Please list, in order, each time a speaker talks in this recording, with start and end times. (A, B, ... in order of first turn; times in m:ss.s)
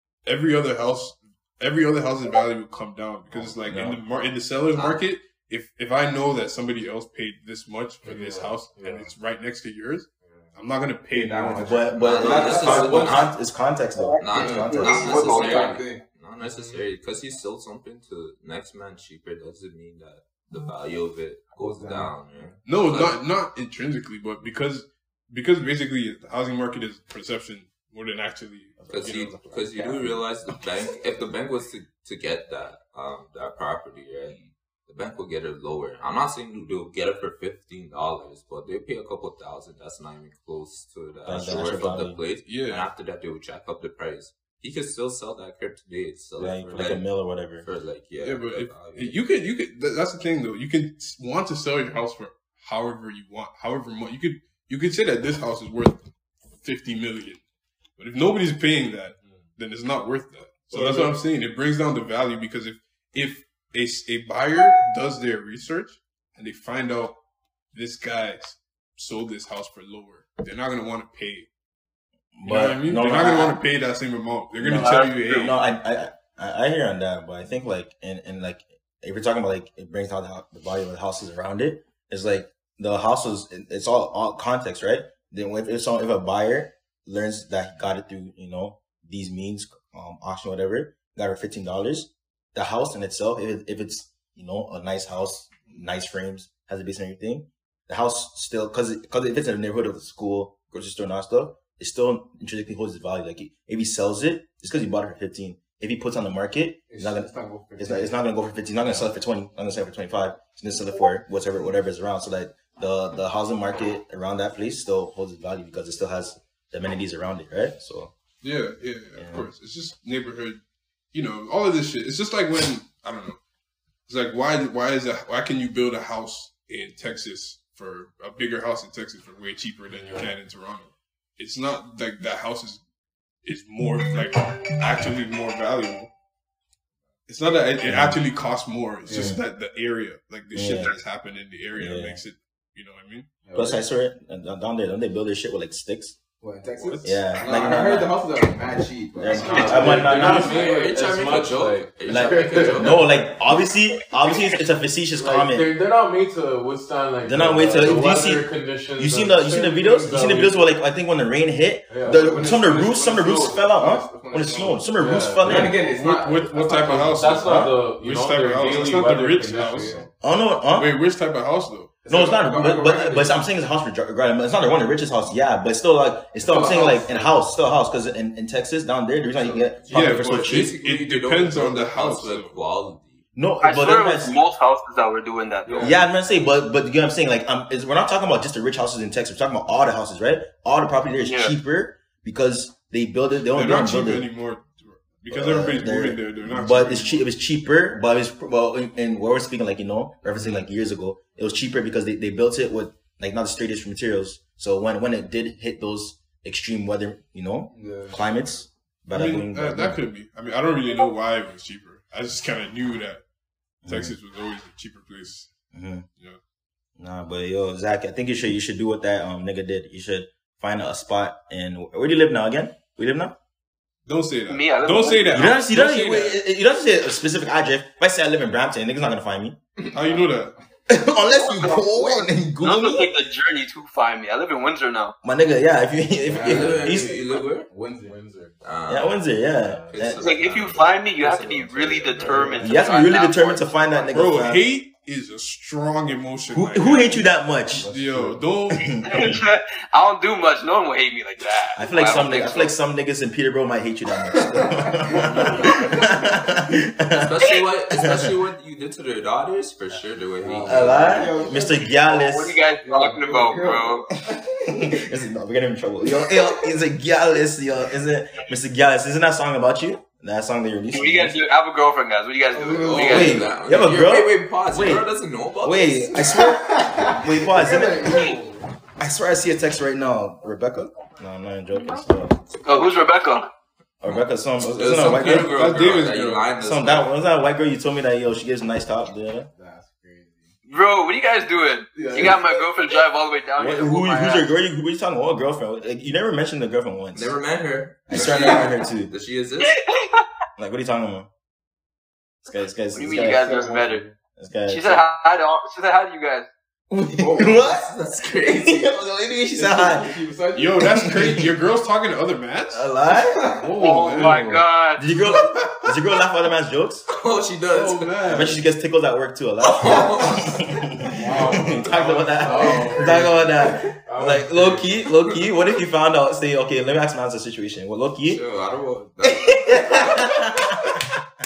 0:00.2-0:11.8 A
0:03.6-0:04.0 B
0:04.7-0:05.0 C
0:08.0-0:09.1 D
0:11.1-0:13.3 E
0:11.6-0:15.1 B
0:12.0-0:13.4 C
0:14.0-0:15.8 F
0:14.2-0:23.2 C
0:14.3-0:16.0 E
0:16.4-0:16.8 D
0:21.6-0:22.1 E
0:22.6-0:29.3 A
0:28.8-0:30.2 B
0:28.9-0:47.0 C
0:41.2-0:42.2 B
0:42.4-0:42.9 A
0:46.4-0:47.6 B
0:47.6-0:49.2 C
0:48.2-0:56.0 A
0:56.6-0:57.4 A
0:58.0-1:07.2 A
0:59.2-0:59.4 D
1:00.8-1:01.1 D
1:07.7-1:11.5 A
1:12.4-1:13.6 B
1:12.4-1:15.6 A
1:14.6-1:58.1 B
1:14.8-1:15.0 F
1:46.9-1:48.1 E
1:58.4-2:00.6 A
1:59.2-1:59.5 B
2:01.1-2:03.4 A
2:04.0-2:12.8 A
2:09.9-2:10.3 D
2:13.4-2:16.1 A
2:17.3-2:23.3 A
2:17.8-2:18.2 B
2:19.0-2:19.4 E
2:19.1-2:19.4 B
2:20.5-2:21.0 B
2:21.8-2:22.2 B
2:23.4-2:23.8 E
2:23.5-2:26.2 B
2:26.4-2:30.1 E
2:26.8-2:27.7 A
2:27.0-2:28.2 B
2:29.2-2:30.6 B
2:29.3-2:33.1 D
2:29.7-2:30.1 A
2:30.1-2:33.1 C
2:32.1-2:35.7 B
2:35.2-2:40.7 D
2:37.2-2:45.8 B
2:41.9-2:42.6 D
2:42.0-2:44.8 E
2:45.0-2:45.7 D
2:45.4-2:47.3 E
2:45.7-2:50.0 A
2:46.8-2:50.1 D
2:49.5-2:50.1 E
2:50.2-2:50.9 B
2:50.7-2:52.1 A
2:52.0-2:53.4 E
2:52.1-3:00.7 B
2:56.5-2:57.3 D
2:59.4-3:03.2 C
2:59.9-3:02.6 A
3:03.3-3:04.4 B
3:03.6-3:05.9 F
3:05.6-3:06.0 D
3:05.7-3:05.9 E
3:05.8-3:14.3 B
3:11.2-3:11.6 F
3:13.5-3:17.3 A
3:15.3-3:30.0 B
3:27.7-3:28.6 E
3:29.1-3:33.2 A
3:33.8-3:34.1 B
3:33.8-3:35.5 A
3:35.7-3:36.1 B
3:37.0-3:43.4 B
3:44.0-3:46.4 A
3:44.5-3:45.6 F
3:45.3-3:49.6 B
3:49.8-3:50.3 E
3:49.9-3:50.5 A
3:50.9-3:53.1 B
3:51.3-3:55.2 F
3:55.2-3:57.1 B
3:56.2-3:58.2 E
3:56.4-3:57.7 C
3:56.8-3:57.2 D
3:57.9-3:58.5 D
3:58.6-3:59.2 C
3:58.9-4:00.3 B
3:59.6-4:00.1 D
3:59.9-4:02.6 C
4:00.1-4:03.8 F
4:02.3-4:02.8 E
4:02.6-4:04.6 B
4:04.1-4:07.1 A
4:06.5-4:07.9 B
4:07.7-4:08.4 E
4:07.8-4:09.0 A
4:08.7-4:09.4 B
4:09.0-4:12.7 F
4:11.8-4:18.3 B
4:14.5-4:16.6 E
4:15.1-4:16.1 C
4:17.1-4:21.5 C
4:20.4-4:21.9 E
4:20.6-4:22.6 B
4:22.0-4:24.1 F
4:22.8-4:25.2 E
4:24.7-4:31.4 B
4:30.9-4:33.4 F
4:32.5-4:33.5 E
4:32.7-4:36.4 C
4:33.0-4:38.3 B
4:36.2-4:38.7 E
4:39.0-4:42.3 B
4:42.6-4:43.5 F
4:44.0-4:45.6 B
4:44.0-4:47.2 C
4:44.8-4:46.5 A
4:46.6-4:49.5 B
4:49.5-4:50.5 E
4:50.6-4:54.5 F
4:51.9-4:52.7 E
4:53.6-4:57.3 B
4:57.1-4:59.8 C
4:58.1-4:59.1 B
4:58.2-4:58.7 E
4:59.6-5:00.2 F
5:00.6-5:01.3 B
5:02.4-5:03.5 B
5:02.9-5:04.0 F
5:03.0-5:04.1 E
5:04.4-5:05.1 B
5:04.7-5:06.5 F
5:06.9-5:10.1 B
5:07.2-5:07.6 E
5:07.6-5:08.9 C
5:09.6-5:11.2 E
5:10.5-5:12.9 A
5:10.9-5:11.4 B
5:12.7-5:13.5 B
5:13.1-5:13.7 E
5:13.6-5:14.6 A
5:13.7-5:15.1 F
5:14.2-5:17.1 B
5:17.1-5:18.3 C
5:17.7-5:18.6 A
5:18.2-5:28.4 B
5:19.6-5:20.6 C
5:21.2-5:25.0 D
5:21.3-5:23.8 E
5:28.2-5:30.5 C
5:29.2-5:31.1 B